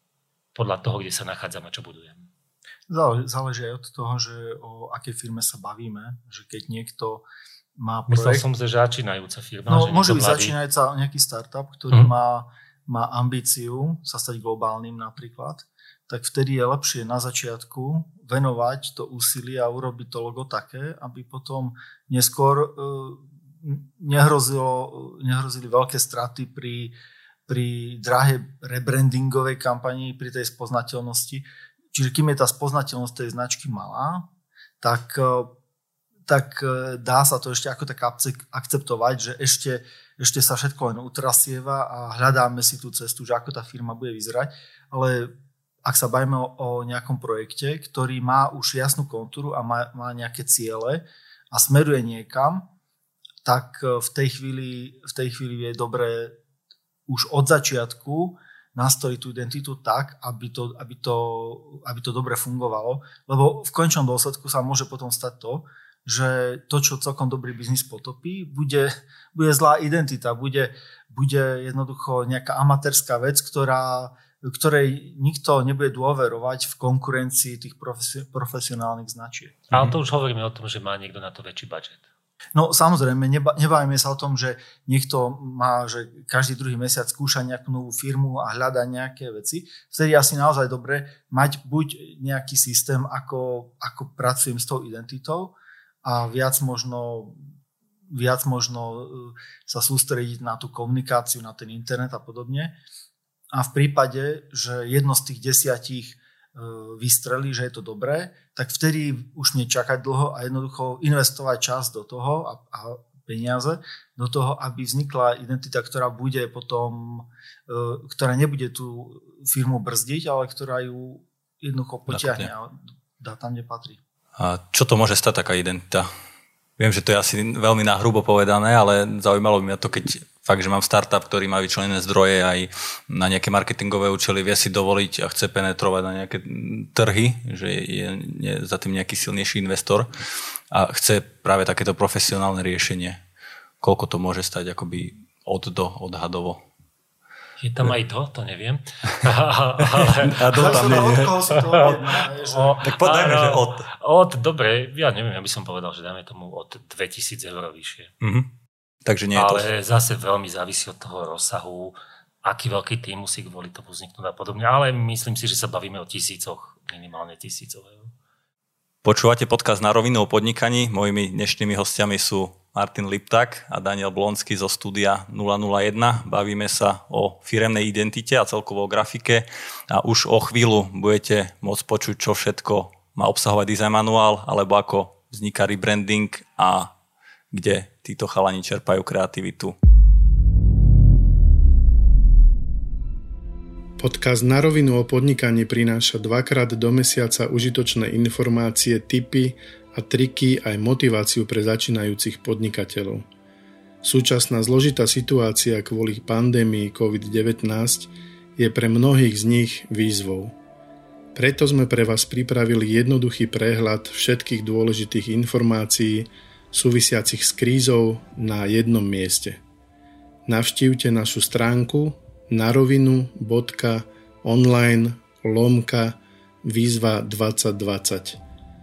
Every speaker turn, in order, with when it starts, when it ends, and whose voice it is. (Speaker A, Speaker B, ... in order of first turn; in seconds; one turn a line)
Speaker A: 0.6-2.3
Speaker B: 2.9-7.2
Speaker B: 7.8-8.4
Speaker A: 8.1-10.6
Speaker B: 9.7-26.9
Speaker B: 27.5-34.3
Speaker B: 34.8-35.5
Speaker B: 36.3-45.3
Speaker B: 45.9-52.7
Speaker B: 53.4-56.4
Speaker B: 57.1-79.6
Speaker A: 79.7-82.0
Speaker B: 82.5-97.4
Speaker B: 98.1-102.8
Speaker B: 103.5-124.0
Speaker C: 122.1-122.5
Speaker C: 124.4-126.1
Speaker C: 126.8-140.1
Speaker C: 140.7-143.2
Speaker C: 143.8-146.6
Speaker A: 147.6-158.1
Speaker C: 150.0-151.5
Speaker B: 150.5-152.8
Speaker C: 152.8-153.9
Speaker C: 158.2-158.5
Speaker C: 159.1-159.7
Speaker A: 159.3-168.1
Speaker C: 169.0-186.9
Speaker C: 187.5-189.8
Speaker D: 194.0-203.3
Speaker D: 204.0-210.6
Speaker D: 211.3-219.6
Speaker D: 220.5-228.4